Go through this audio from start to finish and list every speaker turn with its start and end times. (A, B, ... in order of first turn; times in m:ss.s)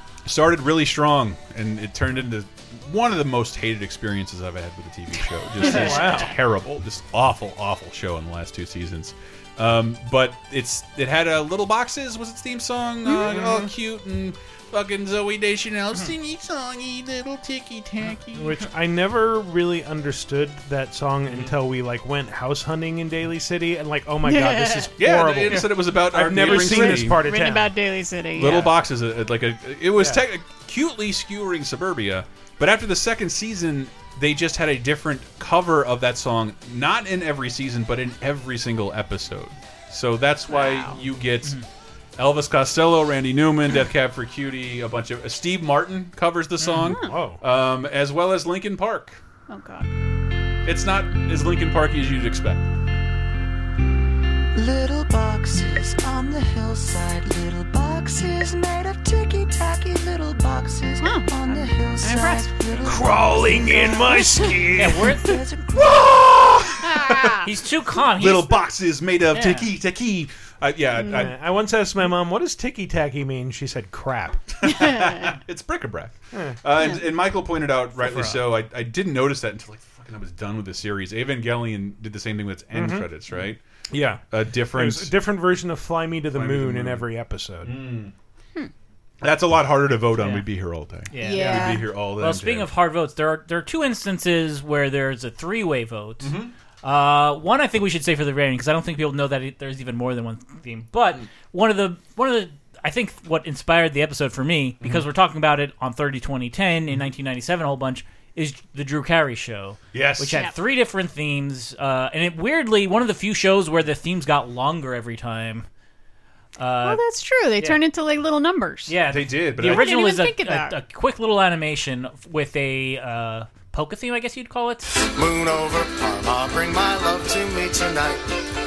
0:00.3-0:18.6 A
0:05.6-0:06.3 B
0:13.2-0:13.7 B
0:18.3-0:27.7 B
0:24.2-0:24.9 C
0:25.0-0:27.2 A
0:26.4-0:28.8 C
0:28.4-0:41.6 A
0:40.5-0:41.0 C
0:42.2-0:49.2 A
0:46.6-0:46.9 D
0:46.8-0:47.2 C
0:47.0-0:47.4 B
0:49.5-0:49.9 C
0:50.6-0:52.6 A
0:54.6-1:04.4 E
1:01.0-1:03.0 C
1:02.8-1:05.1 B
1:04.4-1:04.7 C
1:04.8-1:05.3 D
1:05.0-1:06.0 E
1:05.8-1:07.3 A
1:06.8-1:07.4 C
1:07.4-1:08.6 D
1:08.2-1:11.4 A
1:09.3-1:09.7 D
1:11.1-1:14.4 B
1:14.6-1:23.6 A
1:14.7-1:15.3 C
1:16.3-1:16.6 B
1:18.0-1:18.4 D
1:22.7-1:23.1 B
1:23.9-1:27.8 B
1:24.2-1:25.1 A
1:26.3-1:27.1 A
1:27.6-1:28.1 A
1:29.2-1:32.7 A
1:30.2-1:30.4 D
1:31.1-1:55.7 D
1:31.2-1:31.9 C
1:36.2-1:36.5 A
1:49.9-1:50.4 A
1:56.6-1:57.0 D
1:56.8-1:58.9 C
1:58.9-2:04.9 D
1:59.1-1:59.9 A
1:59.6-2:00.7 C
2:05.1-2:08.2 F